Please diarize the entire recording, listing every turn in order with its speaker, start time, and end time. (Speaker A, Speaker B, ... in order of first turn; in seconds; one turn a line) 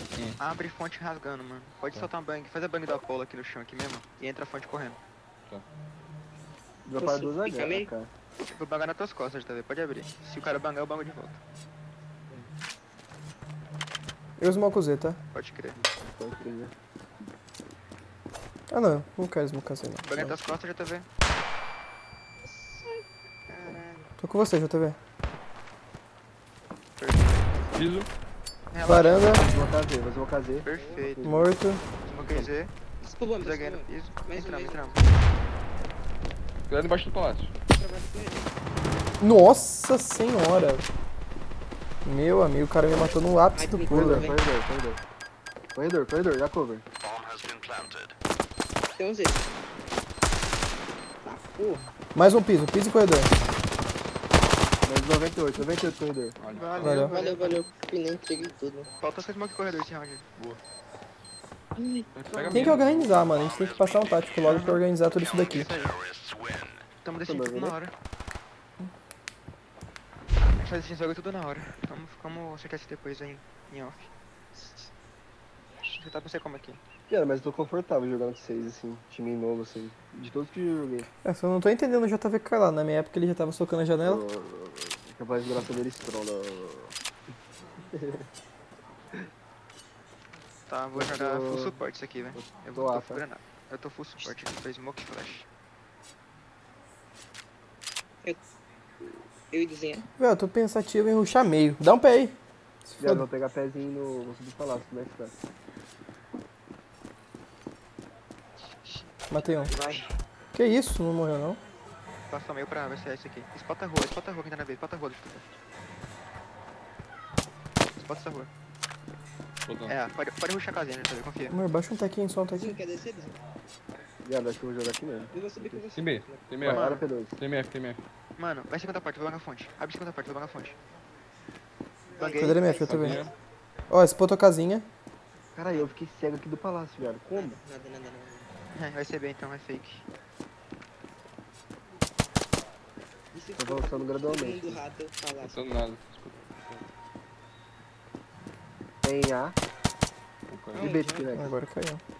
Speaker A: 0.4-5.0
Speaker B: 6.8-8.1
Speaker C: 7.0-7.9
Speaker A: 8.4-11.4
Speaker D: 14.4-15.2
Speaker A: 15.3-15.8
Speaker B: 15.7-16.7
Speaker D: 18.7-20.4
Speaker A: 20.0-21.1
Speaker C: 22.4-24.0
Speaker A: 23.5-23.9
Speaker D: 24.2-25.0
Speaker A: 27.0-27.5
Speaker C: 27.5-27.9
Speaker E: 27.7-28.1
Speaker A: 28.7-29.4
Speaker D: 28.8-29.4
Speaker B: 29.4-31.6
Speaker A: 30.6-31.4
Speaker C: 30.6-31.2
Speaker D: 31.2-31.9
Speaker A: 31.9-32.7
Speaker E: 32.2-32.5
Speaker C: 33.0-35.5
Speaker A: 33.4-35.0
Speaker E: 36.7-37.5
Speaker C: 37.7-38.5
Speaker D: 39.2-40.9
Speaker D: 42.0-44.3
Speaker C: 43.5-44.4
Speaker B: 43.9-45.0
Speaker B: 45.7-46.8
Speaker C: 48.9-49.5
Speaker C: 51.2-51.9
Speaker D: 52.1-53.3
Speaker B: 54.8-56.4
Speaker E: 56.4-57.0
Speaker A: 56.5-57.6
Speaker D: 56.8-57.1
Speaker C: 57.0-58.9
Speaker A: 59.0-60.2
Speaker C: 61.8-62.8
Speaker E: 62.1-63.2
Speaker D: 62.5-65.7
Speaker A: 64.4-66.0
Speaker A: 67.0-67.9
Speaker B: 67.2-67.8
Speaker A: 70.5-74.1
Speaker C: 74.5-74.9
Speaker A: 75.8-76.8
Speaker B: 77.1-81.1
Speaker D: 81.2-84.2
Speaker B: 84.0-87.0
Speaker B: 87.9-88.2
Speaker A: 90.7-95.5
Speaker B: 90.9-91.8
Speaker B: 92.3-93.2
Speaker C: 99.0-100.0
Speaker D: 100.2-103.2
Speaker B: 103.0-105.3
Speaker C: 108.6-109.1
Speaker D: 109.3-109.7
Speaker C: 109.7-110.1
Speaker D: 110.5-111.6
Speaker A: 112.3-115.5
Speaker A: 118.0-118.5
Speaker E: 119.7-119.9
Speaker A: 119.9-121.5
Speaker D: 121.5-122.8
Speaker C: 122.5-123.4
Speaker B: 124.2-125.9
Speaker C: 125.3-126.4
Speaker E: 126.0-128.0
Speaker B: 126.6-127.3
Speaker A: 126.7-127.0
Speaker A: 128.4-130.8
Speaker C: 132.1-133.3
Speaker A: 132.2-132.6
Speaker D: 132.4-133.2
Speaker E: 132.8-133.3
Speaker D: 133.9-134.9
Speaker B: 135.6-137.6
Speaker C: 135.7-135.9
Speaker C: 137.3-138.5
Speaker A: 138.7-140.1
Speaker C: 143.3-146.9
Speaker B: 143.6-144.8
Speaker E: 145.4-146.4
Speaker B: 149.0-149.6
Speaker E: 150.5-150.9
Speaker C: 150.7-151.5
Speaker B: 150.8-151.5
Speaker D: 151.3-152.0